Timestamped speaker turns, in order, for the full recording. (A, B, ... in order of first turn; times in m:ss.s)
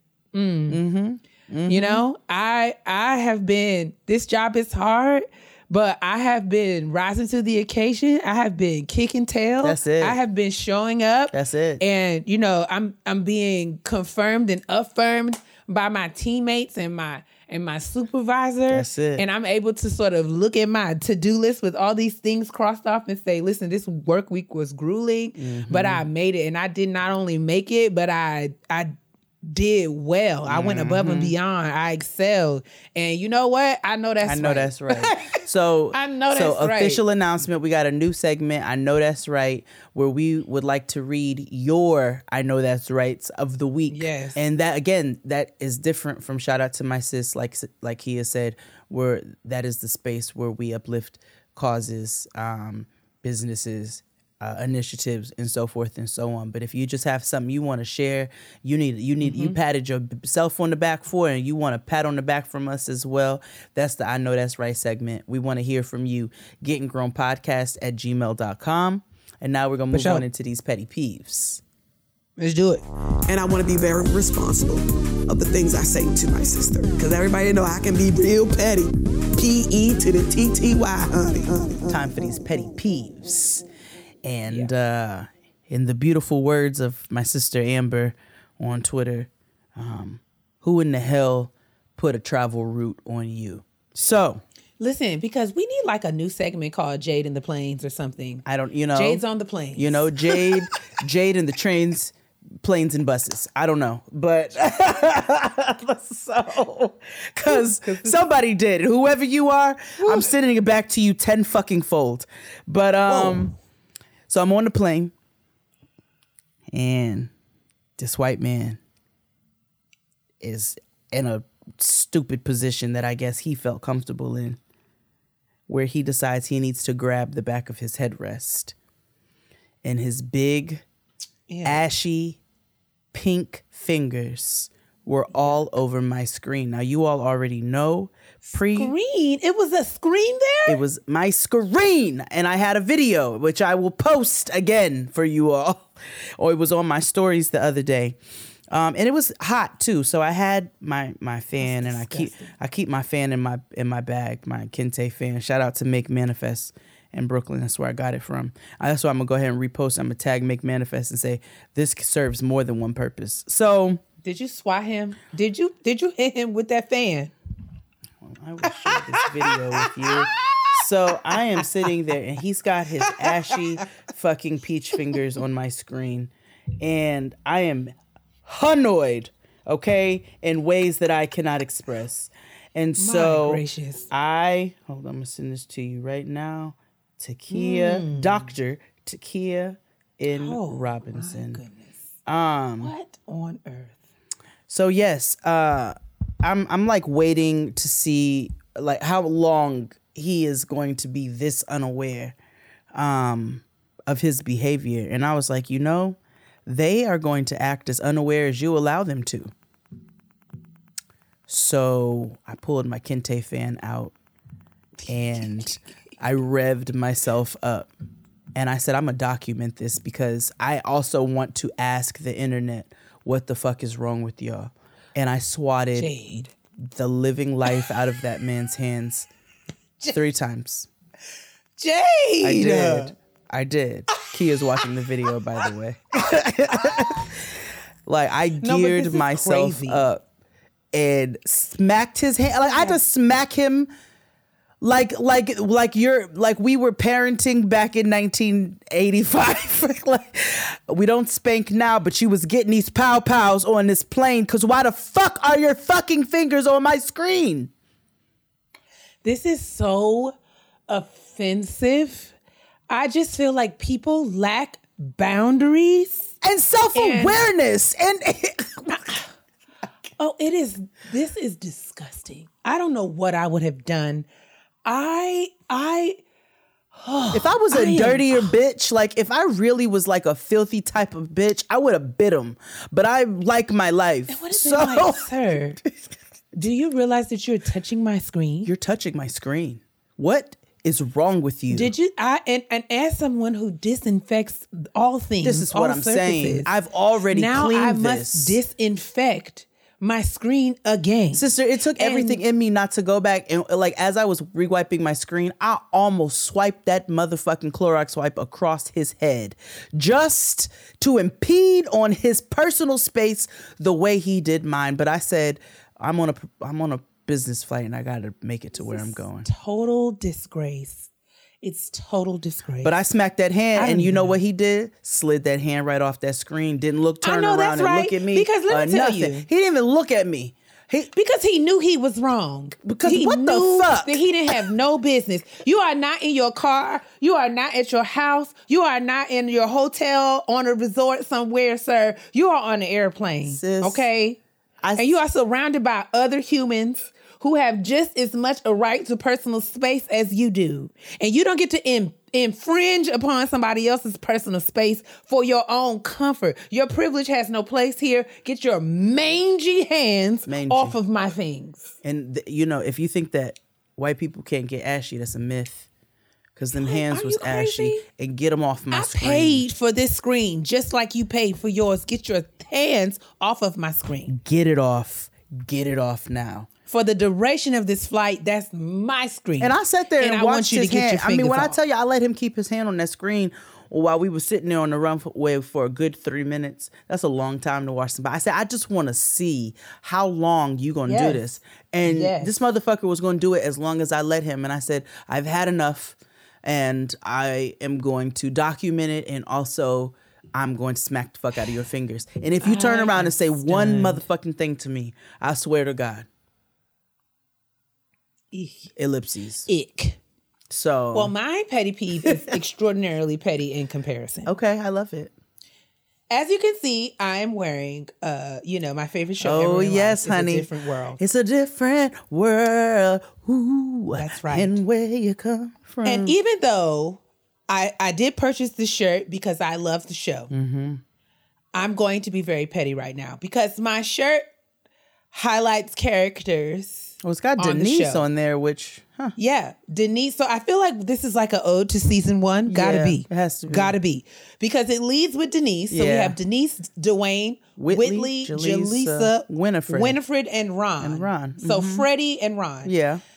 0:00.3-0:00.8 A
0:00.7-0:02.0 B
0:01.7-0:35.4 A
0:09.6-0:10.2 B
0:11.3-0:11.8 B
0:18.7-0:19.2 B
0:25.4-0:26.0 B
0:30.4-0:31.3 B
0:34.2-1:11.6 B
0:35.9-0:37.0 A
0:43.9-0:44.4 A
0:59.2-0:59.6 A
1:09.9-1:10.2 A
1:12.4-1:12.8 A
1:13.3-1:21.9 C
1:21.9-1:23.6 B
1:24.2-1:34.4 B
1:34.8-1:40.6 A
1:38.4-1:39.2 B
1:39.8-1:53.5 B
1:47.5-1:48.2 A
1:50.0-1:50.3 A
1:53.1-1:53.5 A
1:54.3-1:55.1 B
1:56.7-1:57.3 B
1:58.0-1:58.8 B
2:00.4-2:04.6 B
2:05.7-2:08.7 B
2:09.8-2:10.8 B
2:11.5-2:11.8 A
2:11.6-2:12.4 B
2:13.1-2:18.9 B
2:18.5-2:20.8 A
2:20.6-2:28.2 B
2:28.7-2:44.0 B
2:31.6-2:32.5 A
2:44.2-2:47.3 A
2:48.2-3:11.6 B
2:48.6-2:50.8 A
2:53.0-2:53.6 A
3:03.0-3:04.1 A
3:07.5-3:08.5 A
3:10.3-3:12.0 A
3:12.2-3:12.9 B
3:12.8-3:14.0 A
3:14.7-3:22.4 B
3:22.9-3:29.5 B
3:31.5-3:34.1 B
3:35.1-3:37.9 B
3:35.4-3:35.7 A
3:38.5-3:46.1 B
3:46.0-3:46.5 A
3:46.8-3:49.3 B
3:50.1-3:50.9 B
3:51.8-3:53.1 A
3:52.4-4:00.2 B
3:58.6-4:00.0 A
4:00.9-4:03.9 B
4:04.8-4:17.7 B
4:19.2-4:20.3 A
4:20.9-4:22.4 A
4:22.9-4:26.3 A
4:26.4-4:29.0 B
4:26.9-4:27.4 A
4:28.9-4:29.3 A
4:30.2-4:34.3 A
4:34.8-4:36.2 A
4:36.9-4:38.5 A
4:37.3-4:46.1 B
4:44.3-4:45.8 A
4:46.5-4:48.7 A
4:48.6-4:51.9 B
4:51.7-4:56.7 A
4:55.4-4:58.6 B
4:57.3-5:01.4 A
5:01.3-5:19.4 B
5:02.0-5:02.4 A
5:18.8-5:21.1 A
5:21.6-5:22.9 A
5:22.8-5:31.1 B
5:23.7-5:24.4 A
5:27.2-5:29.4 A
5:31.1-5:44.4 A
5:32.8-5:34.7 B
5:43.4-5:44.1 B
5:44.8-5:45.2 B
5:45.0-6:01.9 A
6:00.5-6:00.9 B
6:02.0-6:05.9 B
6:06.6-6:09.6 B
6:06.8-6:08.0 A
6:08.9-6:14.4 A
6:14.3-6:16.7 B
6:16.9-6:21.8 A
6:19.6-6:46.3 B
6:31.1-6:31.4 A
6:32.0-6:32.5 A
6:42.6-6:44.2 A
6:48.5-6:48.9 A
6:49.0-6:49.7 B
6:49.7-6:50.2 A
6:50.7-6:51.3 B
6:51.1-6:54.5 A
6:52.2-6:52.6 B
6:54.4-6:55.3 B
6:56.3-7:01.2 A
6:59.4-7:06.3 B
7:04.2-7:04.8 A
7:06.0-7:10.5 A
7:10.5-7:11.0 B
7:11.7-7:14.4 A
7:15.3-7:18.2 A
7:17.2-7:19.4 B
7:19.4-7:32.9 A
7:22.7-7:24.0 B
7:25.9-7:26.4 B
7:27.8-7:30.2 B
7:31.0-7:32.1 B
7:32.8-7:33.2 B